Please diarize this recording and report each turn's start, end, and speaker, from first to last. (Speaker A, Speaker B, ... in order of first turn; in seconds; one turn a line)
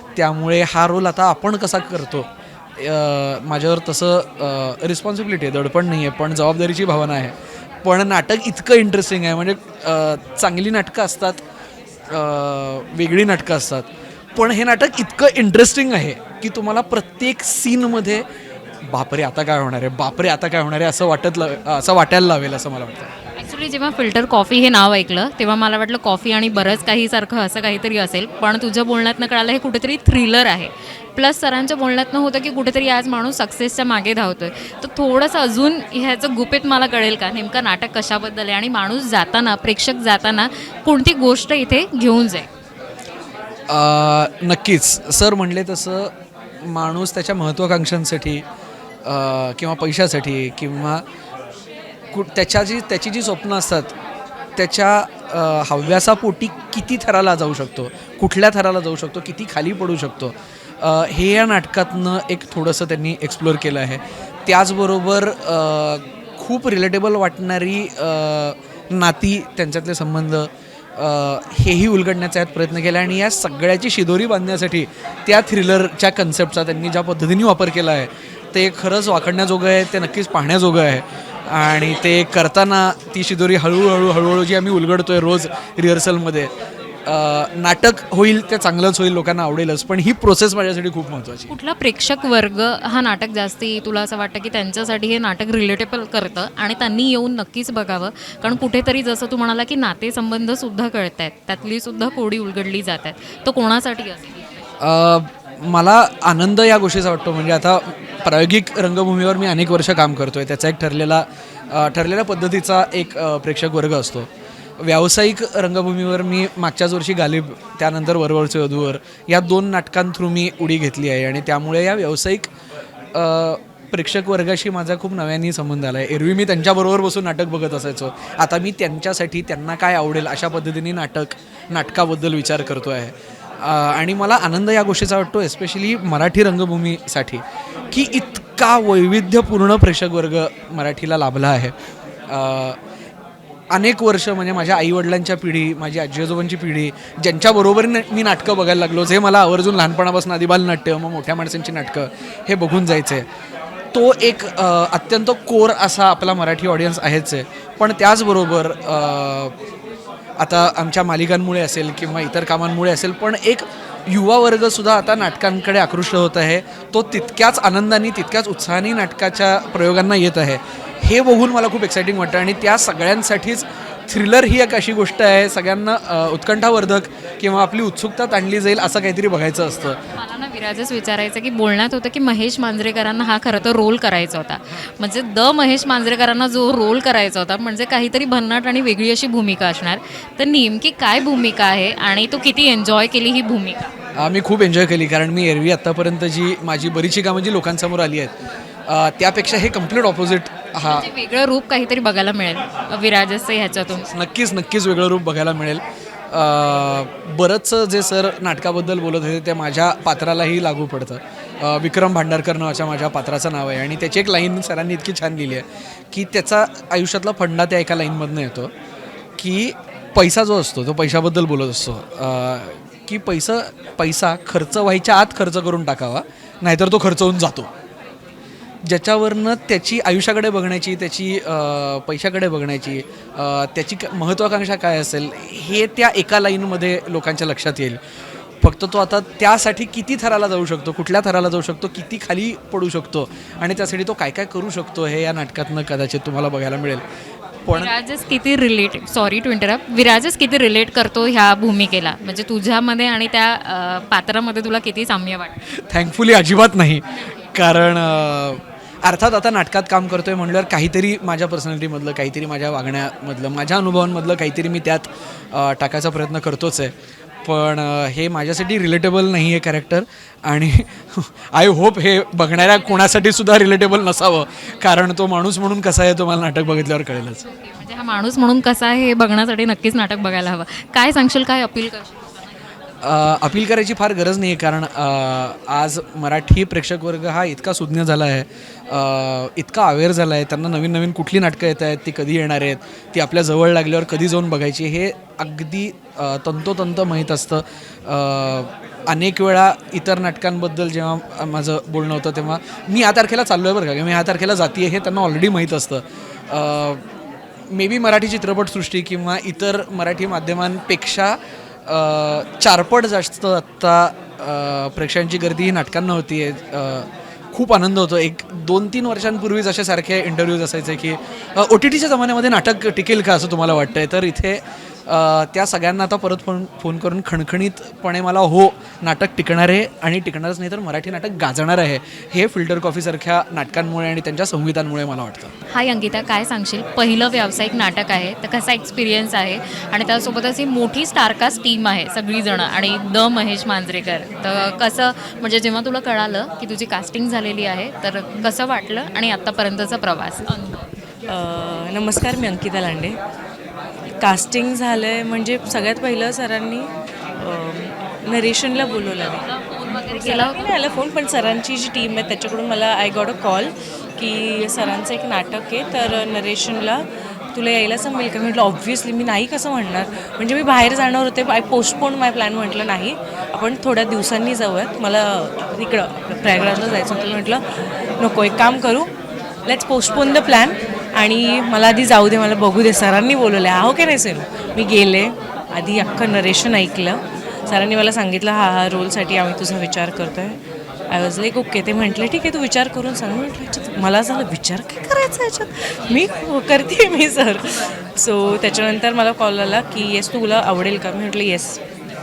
Speaker A: 0.2-11.4
Speaker A: 12.1-18.2
Speaker A: 18.9-23.1
Speaker B: 23.4-42.5
Speaker A: 43.7-46.1
Speaker A: 46.6-48.4
Speaker A: 49.0-51.0
Speaker A: 52.1-53.9
Speaker A: 54.6-86.5
Speaker A: 87.1-91.5
Speaker B: 91.5-104.6
Speaker A: 104.8-114.3
Speaker A: 114.8-122.5
Speaker A: 123.2-141.7
Speaker A: 142.3-142.8
Speaker A: 143.7-153.3
Speaker A: 153.9-159.5
Speaker A: 160.4-180.0
Speaker B: 180.2-193.9
Speaker A: 194.2-198.3
Speaker A: 198.9-201.0
Speaker B: 200.8-204.1
Speaker A: 204.1-218.7
Speaker A: 219.4-227.7
Speaker A: 228.8-238.0
Speaker A: 238.6-247.0
Speaker A: 247.7-247.9
Speaker B: 247.7-255.6
Speaker A: 255.9-266.9
Speaker A: 267.4-277.4
Speaker B: 277.5-282.6
Speaker A: 283.0-307.0
Speaker A: 307.7-335.5
Speaker B: 335.7-350.9
Speaker C: 351.3-353.1
Speaker C: 354.2-359.4
Speaker B: 359.4-360.7
Speaker C: 360.1-377.6
Speaker C: 378.2-379.1
Speaker C: 379.6-390.6
Speaker C: 391.1-401.8